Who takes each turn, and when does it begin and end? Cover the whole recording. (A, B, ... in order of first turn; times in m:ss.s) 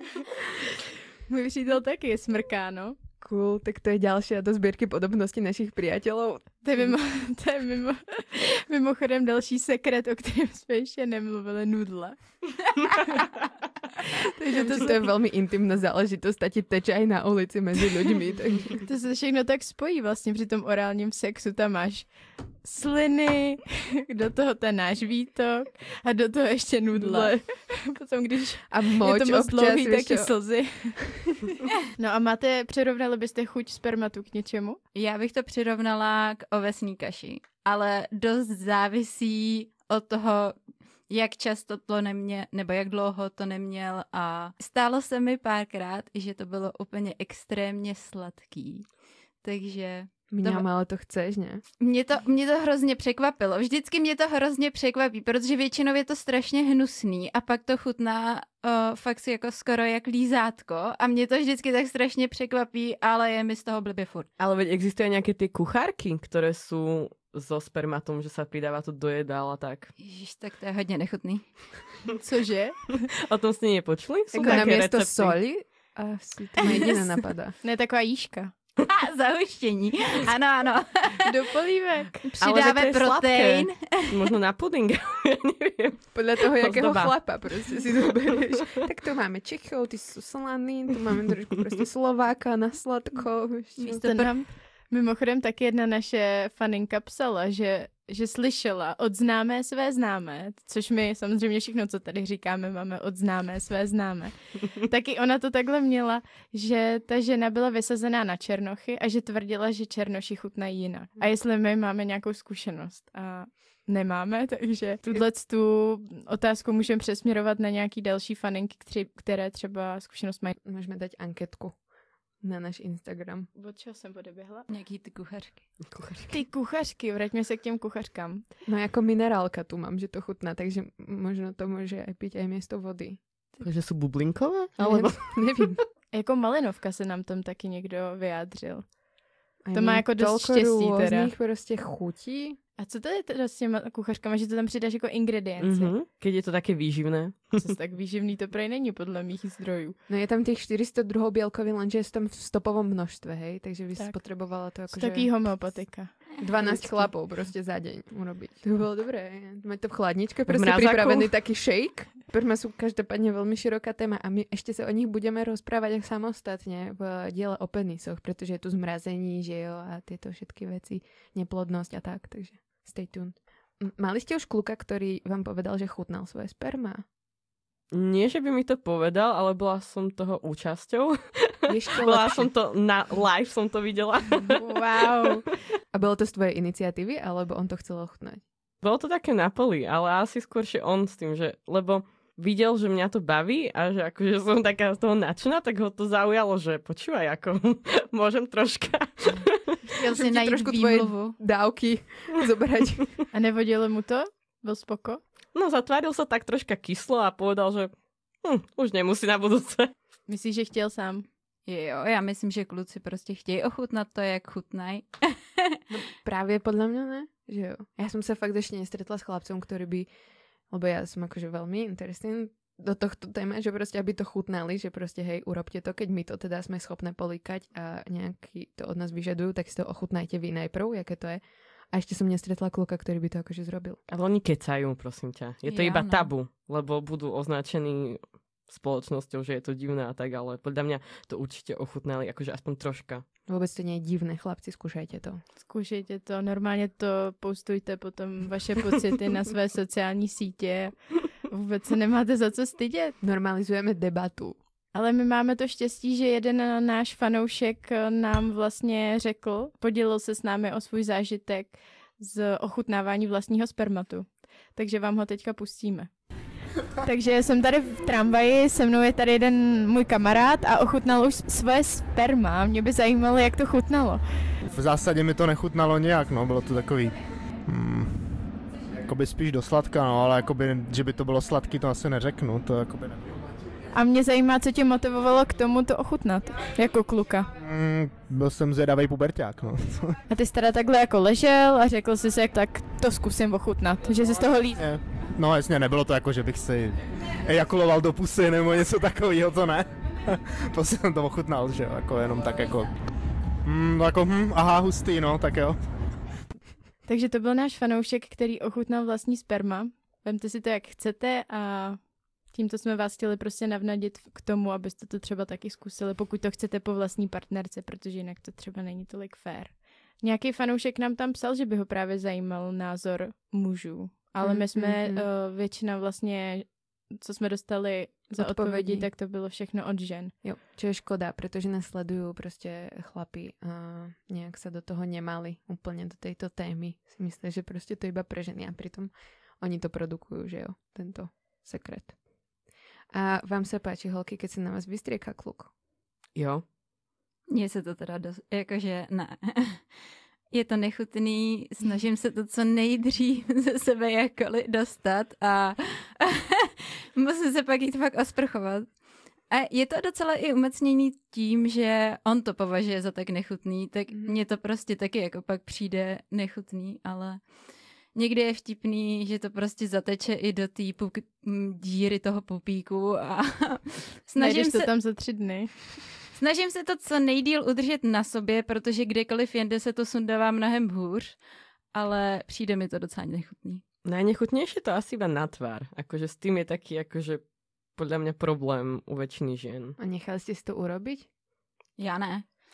0:01.3-0:03.0 A
0:03.2-0:06.9 B
0:06.6-0:13.1 A
0:14.3-0:15.0 A
0:14.5-0:18.8 B
0:18.8-0:31.2 A
0:26.9-0:27.4 B
0:28.7-0:30.4 B
0:31.9-0:34.8 A
0:34.9-0:48.9 C
0:49.4-0:50.7 C
0:50.3-0:51.6 B
0:51.8-1:04.3 C
1:04.4-1:09.9 D
1:10.0-1:12.0 C
1:12.2-1:13.1 A
1:13.3-1:15.4 D
1:14.3-1:17.6 B
1:14.4-1:14.7 A
1:17.6-1:18.5 A
1:18.9-1:21.3 C
1:21.2-1:22.3 A
1:22.2-1:24.2 C
1:22.4-1:27.8 D
1:26.1-1:34.2 B
1:33.8-1:34.3 C
1:34.0-2:00.5 A
2:00.5-2:01.8 B
2:02.4-2:03.5 B
2:03.5-2:04.7 A
2:04.7-2:06.0 C
2:05.9-2:06.3 D
2:06.3-2:08.5 A
2:08.6-2:13.2 B
2:13.6-2:15.7 D
2:14.8-2:15.8 B
2:16.1-2:19.0 A
2:19.6-2:22.6 B
2:19.7-2:21.3 A
2:22.8-2:25.9 A
2:25.6-2:27.6 D
2:27.6-2:30.0 A
2:30.1-2:57.0 B
2:34.0-2:37.1 A
2:40.5-2:41.3 D
2:57.9-3:04.6 D
3:01.6-3:02.5 B
3:04.5-3:05.4 A
3:05.9-3:08.4 B
3:08.8-3:19.8 D
3:20.0-3:20.5 A
3:20.0-3:21.4 C
3:20.2-3:23.2 B
3:23.3-3:25.2 A
3:25.5-3:29.9 D
3:30.3-3:31.2 A
3:31.6-3:35.8 C
3:35.9-3:40.1 B
3:40.7-3:54.0 B
3:54.1-4:03.2 D
3:55.6-3:56.3 C
4:03.5-4:05.4 B
4:05.6-4:13.1 A
4:13.2-4:14.6 B
4:14.9-4:26.3 A
4:26.9-4:34.2 A
4:34.7-4:38.5 E
4:39.0-4:43.4 E
4:43.9-4:47.5 A
4:47.6-4:50.2 E
4:50.3-4:54.8 A
4:54.8-5:02.9 E
5:03.6-5:05.8 E
5:07.0-5:30.3 A
5:24.4-5:25.2 B
5:28.3-5:29.1 B
5:30.4-5:42.2 B
5:43.1-5:45.7 B
5:46.3-5:46.6 D
5:47.5-5:49.8 C
5:50.5-6:07.6 C
6:08.1-6:14.9 C
6:14.4-6:15.7 A
6:16.3-6:21.4 C
6:21.9-6:23.8 C
6:24.0-6:30.0 D
6:30.0-6:31.3 B
6:32.0-6:32.4 C